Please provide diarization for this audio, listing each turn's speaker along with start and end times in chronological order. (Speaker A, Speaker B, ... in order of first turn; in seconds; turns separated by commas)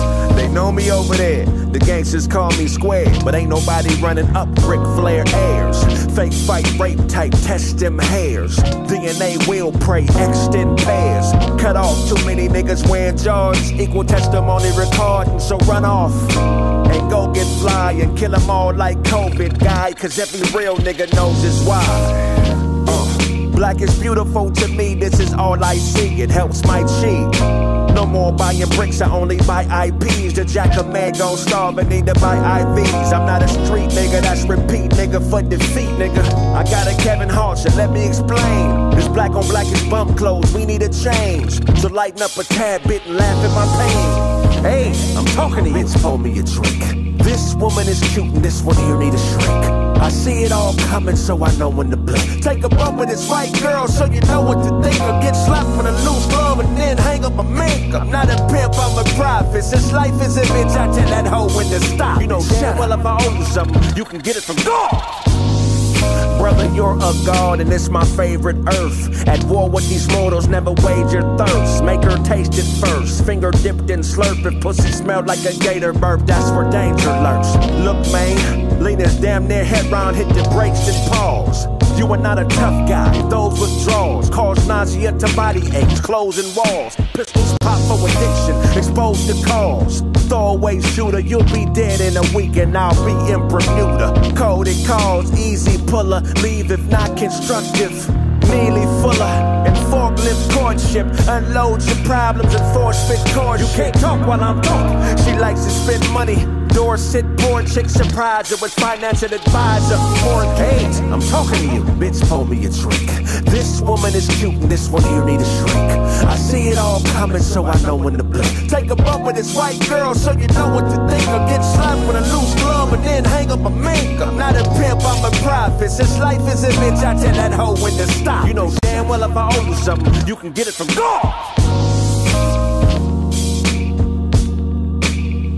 Speaker A: 0.3-65.2, Speaker A: 66.3-131.5